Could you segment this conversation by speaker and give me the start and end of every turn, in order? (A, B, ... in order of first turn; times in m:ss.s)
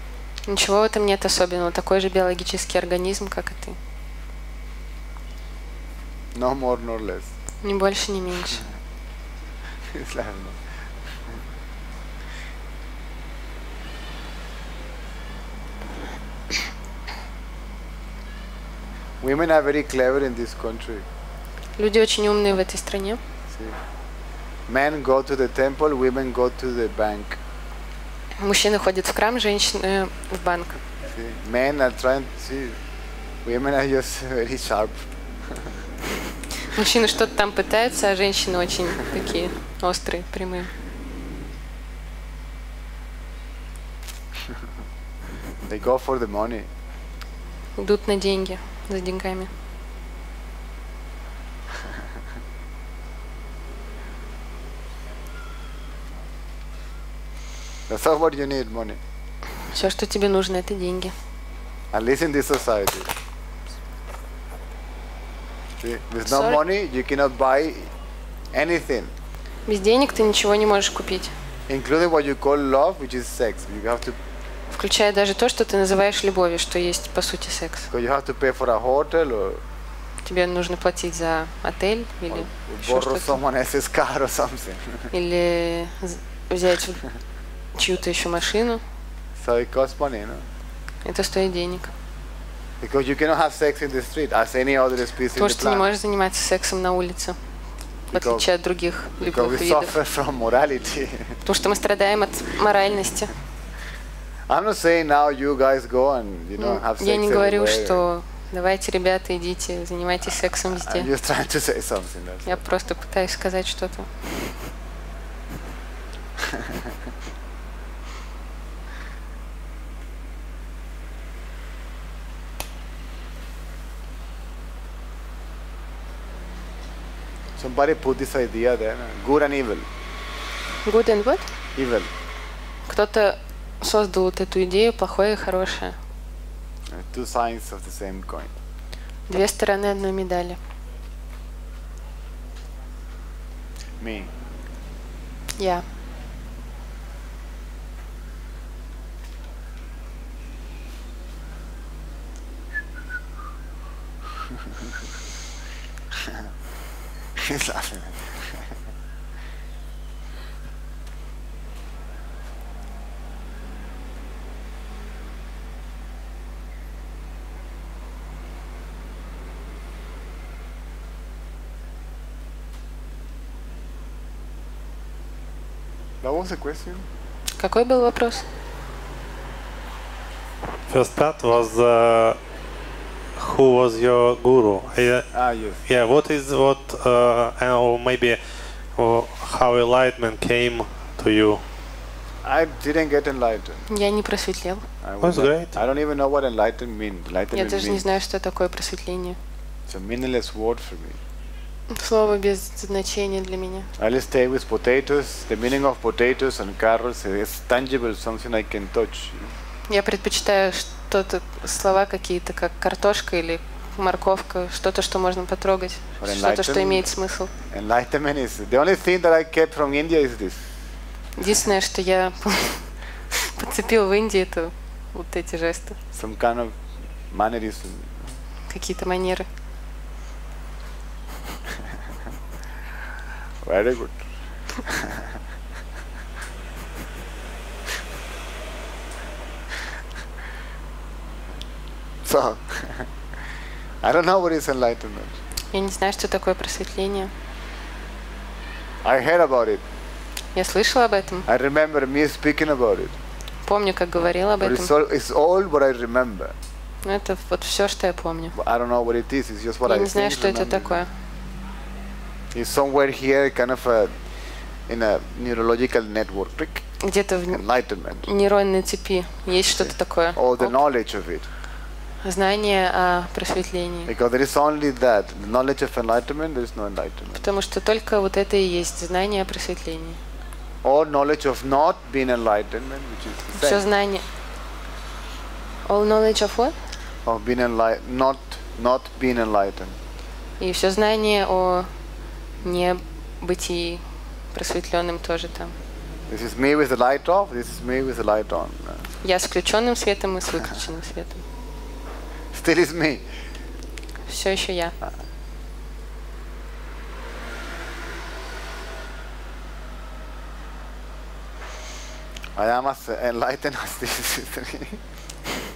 0:00.5-0:03.8 A
0:06.3-0:07.3 B
0:07.6-0:08.6 A
0:09.9-0:10.6 B
0:19.2-0:21.0 B
0:21.8-0:23.2 A
0:23.5-0:23.8 B
0:24.7-0:27.4 B
0:28.4-0:30.8 A
0:31.1-0:32.8 B
0:33.4-0:35.1 B
0:36.6-0:40.7 A
0:45.7-0:46.7 B
0:47.8-0:49.5 A
0:57.9-0:59.0 B
0:59.6-1:01.1 A
1:01.9-1:03.1 B
1:05.8-1:07.9 B
1:06.2-1:06.6 A
1:08.5-1:09.1 B
1:09.6-1:11.3 A
1:11.7-1:14.2 B
1:14.7-1:17.9 A
1:17.9-1:19.6 B
1:20.2-1:23.4 A
1:22.3-1:25.1 B
1:25.1-1:27.0 A
1:27.7-1:28.8 A
1:29.4-1:30.4 B
1:31.0-1:31.9 A
1:32.8-1:35.9 B
1:35.3-1:37.4 A
1:38.1-1:38.5 B
1:38.1-1:40.0 A
1:39.2-1:41.4 B
1:41.4-1:43.3 A
1:44.5-1:48.0 B
1:46.6-1:51.1 A
1:50.4-1:52.6 B
1:52.4-1:54.2 A
1:56.5-1:56.8 B
2:07.6-2:09.9 B
2:10.8-2:11.5 A
2:11.8-2:12.1 B
2:12.8-2:16.0 A
2:16.9-2:18.5 B
2:19.3-2:20.6 A
2:24.0-2:24.3 B
2:25.6-2:25.8 A
2:37.4-2:38.7 B
2:56.2-2:57.0 B
2:57.6-2:58.4 A
3:00.9-3:02.4 C
3:03.4-3:05.3 C
3:05.3-3:05.8 B
3:05.9-3:08.4 C
3:09.0-3:11.6 C
3:12.4-3:13.8 B
3:13.9-3:14.8 A
3:15.0-3:18.1 B
3:15.2-3:15.8 C
3:17.5-3:19.4 A
3:19.9-3:21.2 B
3:21.9-3:23.9 A
3:24.0-3:29.5 B
3:29.9-3:37.5 A
3:36.2-3:37.1 B
3:37.7-3:40.6 B
3:41.4-3:46.0 A
3:46.1-3:46.8 B
3:47.3-3:48.2 B
3:48.7-3:49.5 A
3:53.6-3:54.2 B
3:54.8-3:55.2 B
4:02.2-4:03.1 B
4:04.0-4:05.4 B
4:05.7-4:07.3 A
4:09.0-4:09.8 B
4:10.5-4:11.4 A
4:11.5-4:13.2 B
4:13.6-4:14.9 A
4:14.6-4:16.5 B
4:17.0-4:18.5 A
4:18.5-4:21.0 B
4:19.8-4:21.1 A
4:22.5-4:24.1 B
4:24.9-4:26.8 B
4:27.0-4:27.6 A
4:27.5-4:28.3 B
4:28.2-4:30.8 A
4:29.7-4:31.5 B
4:32.2-4:34.1 A
4:34.0-4:37.4 B
4:37.3-4:40.2 A
4:40.8-4:43.8 B
4:43.5-4:44.2 A
4:45.8-4:46.8 A
4:47.2-4:50.0 B
4:50.6-4:51.9 A
4:52.6-4:55.8 A
4:56.3-4:59.1 B
4:59.2-5:01.4 A
5:02.5-5:03.2 B
5:04.3-5:04.9 A
5:12.6-5:15.0 B